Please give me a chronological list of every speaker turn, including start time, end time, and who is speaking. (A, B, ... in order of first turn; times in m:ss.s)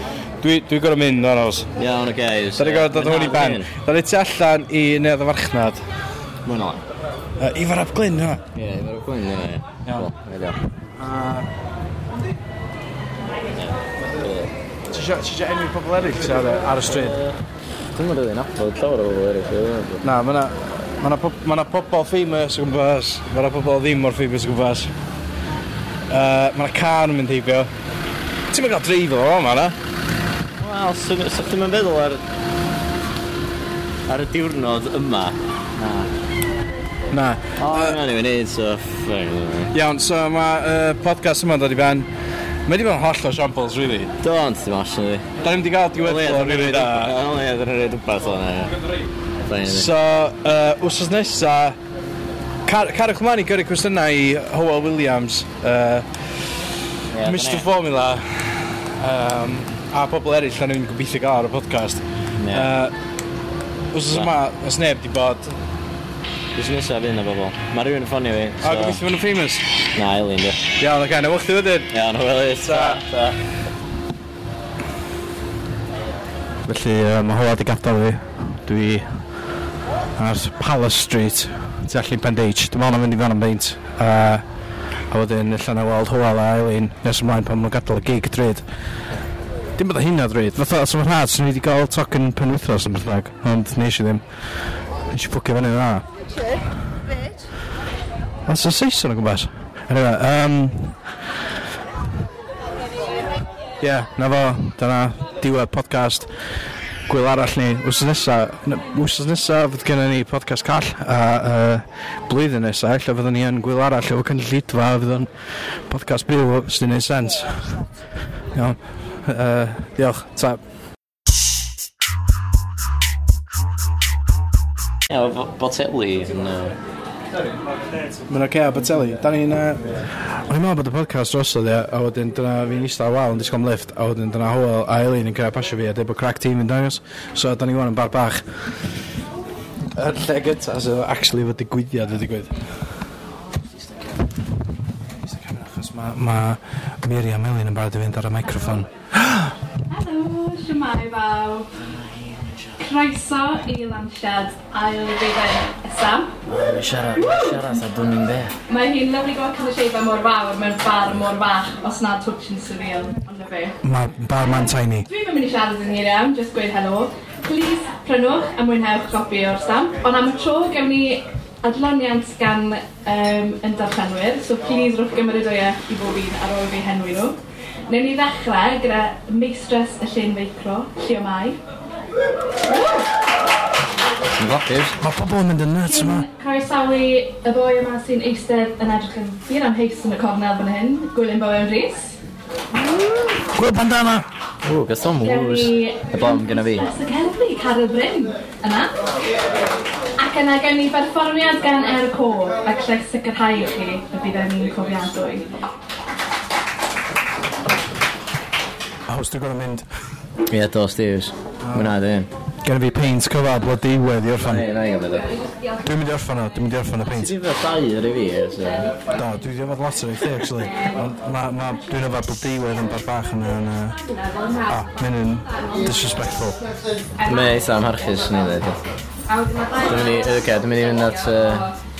0:00.4-0:01.7 A
0:01.8-0:03.7 B
0:02.6-0:05.8 A
0:06.4-0:06.8 B
0:07.4-0:08.4 A
0:08.5-0:10.6 B
0:11.0-0:11.5 A
0:13.5-0:14.5 B
0:14.9-0:17.2 A
0:16.8-0:17.4 B
0:17.9-0:20.0 B
0:20.0-0:24.9 A
0:26.1-0:27.7 A
0:28.5-0:29.8 A
0:30.6-0:32.2 B
0:34.1-0:36.1 B
0:37.1-0:38.0 A
0:37.6-0:39.7 B
0:39.7-0:42.1 A
0:42.7-0:44.1 A
0:44.2-0:45.2 B
0:45.4-0:47.1 A
0:46.0-0:48.7 B
0:49.4-0:49.9 B
0:49.6-0:51.8 A
0:52.6-0:56.1 A
0:57.1-0:57.7 B
0:57.2-1:02.9 A
1:02.4-1:02.7 B
1:03.9-1:05.5 A
1:06.5-1:09.0 B
1:08.6-1:09.7 A
1:09.9-1:10.6 B
1:10.8-1:11.9 A
1:11.9-1:13.4 B
1:12.6-1:13.0 A
1:16.6-1:19.2 A
1:20.2-1:24.4 A
1:25.1-1:28.6 A
1:29.8-1:34.2 A
1:35.1-1:36.0 A
1:38.4-1:41.0 A
1:43.8-1:46.3 A
1:47.1-1:55.3 A
1:55.9-1:57.8 A
1:58.5-2:00.6 A
2:05.1-2:06.8 B
2:08.3-2:18.4 A
2:19.9-2:22.5 A
2:25.2-2:29.6 A
2:29.9-2:31.7 C
2:31.9-2:32.6 B
2:32.8-2:36.4 C
2:36.4-2:38.6 B
2:37.2-2:37.7 C
2:38.7-2:43.8 C
2:43.8-2:45.1 A
2:45.1-3:01.6 C
3:02.7-3:03.0 C
3:04.3-3:05.0 B
3:05.0-3:06.3 A
3:05.8-3:12.2 C
3:13.5-3:14.2 A
3:14.6-3:16.9 B
3:15.2-3:18.9 C
3:20.2-3:25.5 C
3:29.1-3:29.8 A
3:30.5-3:32.3 B
3:31.6-3:31.9 A
3:32.6-3:34.7 A
3:34.4-3:35.4 B
3:35.8-3:37.3 A
3:37.1-3:39.0 B
3:39.1-3:44.0 A
3:44.7-3:46.6 A
3:47.2-3:47.6 C
3:47.2-3:48.8 B
3:49.3-3:50.1 C
3:49.8-3:51.7 B